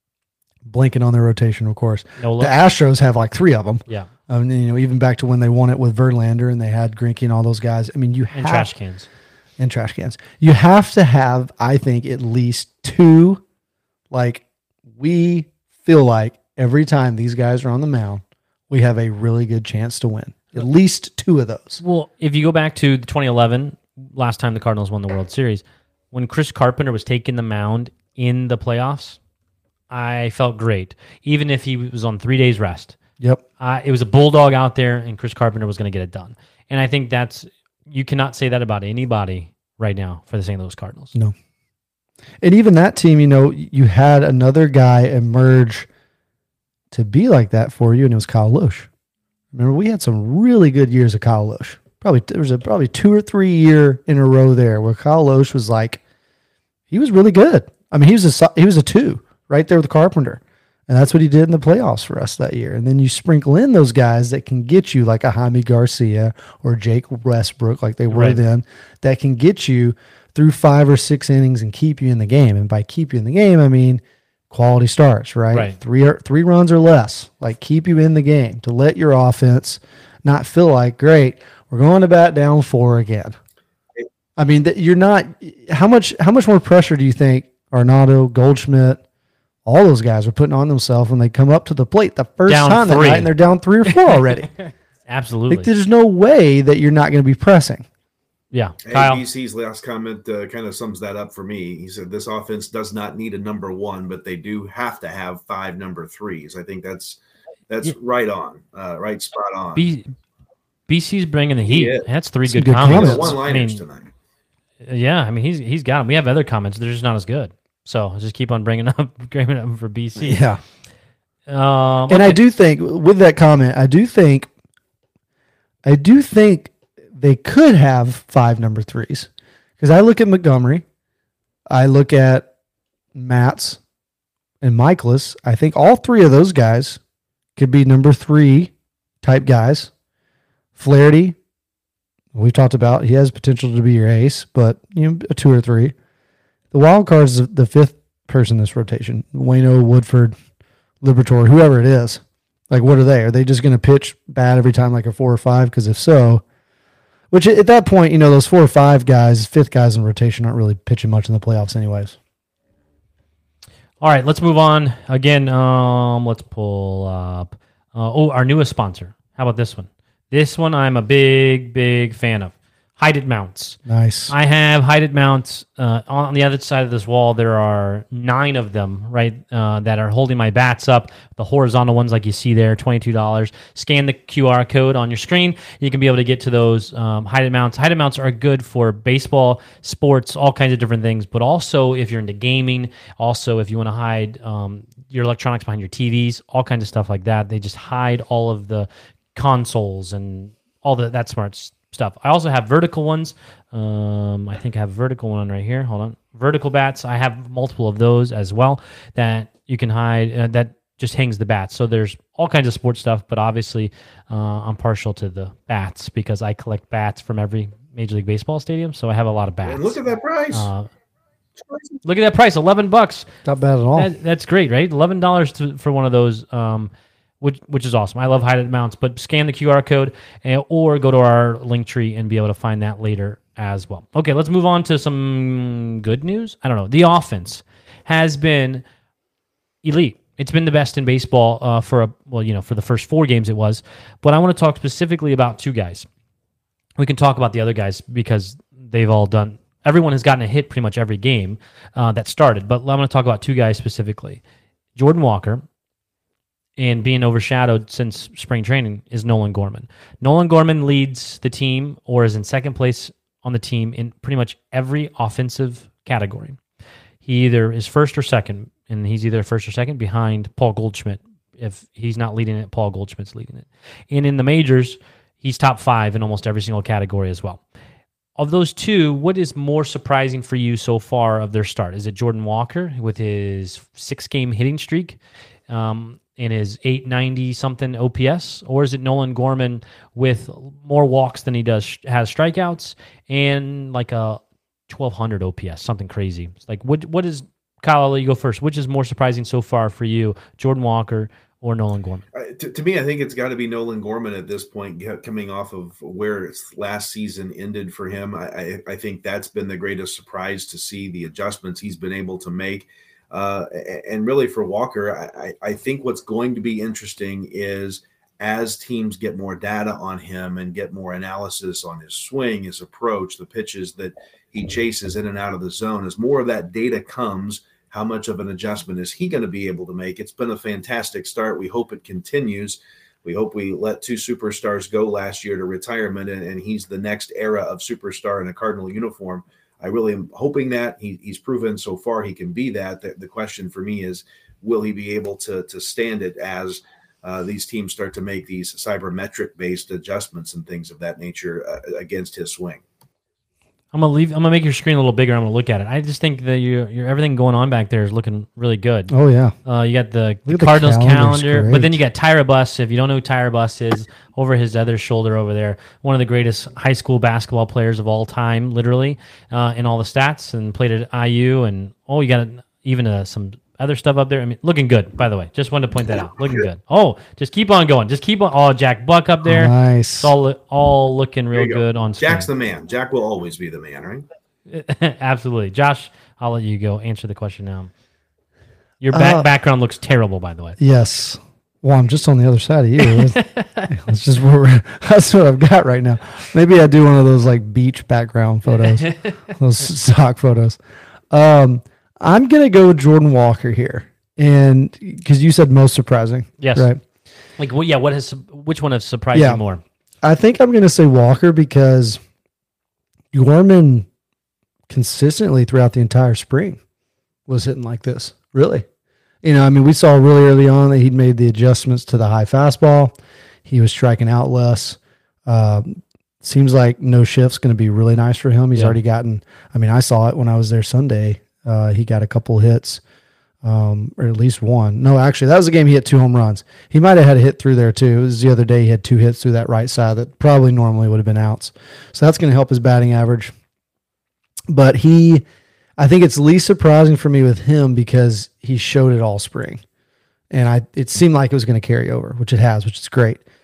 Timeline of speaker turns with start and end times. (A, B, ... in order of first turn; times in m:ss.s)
0:00.6-0:08.7 A
0:02.2-0:02.5 B
0:08.3-0:09.1 B
0:09.6-0:13.4 A
0:14.1-0:14.4 A
0:14.9-0:21.8 A
0:21.8-0:29.2 B
0:29.9-0:33.0 B
0:33.6-0:41.1 B
0:42.4-0:45.9 A
0:46.9-0:48.9 A
0:49.5-0:56.0 A
0:56.9-1:23.4 A
1:08.1-1:08.4 B
1:15.5-1:15.8 B
1:24.4-1:29.0 A
1:29.6-1:34.5 A
1:32.5-1:33.3 B
1:33.9-1:35.7 B
1:35.5-1:37.8 A
1:38.5-1:39.2 B
1:38.8-1:47.2 C
1:47.7-1:49.9 C
1:49.7-1:50.1 B
1:50.9-1:53.8 B
1:51.7-1:52.1 C
1:52.5-1:53.4 A
1:52.8-1:54.1 C
1:54.8-2:00.4 B
2:00.2-2:00.6 A
2:01.5-2:02.4 B
2:02.1-2:04.5 A
2:05.8-2:10.8 A
2:11.7-2:12.5 A
2:13.1-2:13.8 A
2:14.6-2:17.0 A
2:17.6-2:19.9 A
2:20.8-2:21.4 A
2:22.3-2:25.9 A
2:26.7-2:30.3 A
2:31.0-2:36.4 A
2:37.3-2:42.2 A
2:44.0-3:40.0 B
2:53.8-2:54.3 A
3:39.6-3:40.7 C
3:40.5-3:40.9 B
3:42.0-3:43.3 B
3:43.4-3:44.1 A
3:43.9-3:58.8 B
3:59.8-4:06.1 B
4:07.0-4:14.4 B
4:14.9-4:15.6 B
4:16.8-4:26.6 B
4:27.2-4:37.6 B
4:38.4-5:02.2 B
5:02.3-5:52.8 C
5:53.9-5:59.1 B
5:59.1-5:59.6 A
5:59.6-6:22.5 B
6:00.5-6:02.0 A
6:19.4-6:20.3 A
6:21.5-6:24.2 C
6:24.7-6:27.9 B
6:29.0-6:30.8 B
6:29.1-6:29.5 A
6:30.8-6:40.8 A
6:33.2-6:33.9 B
6:39.0-6:39.3 B
6:41.3-6:47.0 A
6:46.6-6:46.9 B
6:47.6-6:49.8 B
6:49.3-6:49.6 A
6:50.2-6:52.2 A
6:53.3-6:54.1 A
6:54.9-6:56.8 A
6:57.5-6:58.8 A
6:59.4-7:13.0 A
7:13.6-7:23.5 A
7:24.7-7:25.4 A
7:26.0-7:29.8 A
7:30.5-7:33.4 A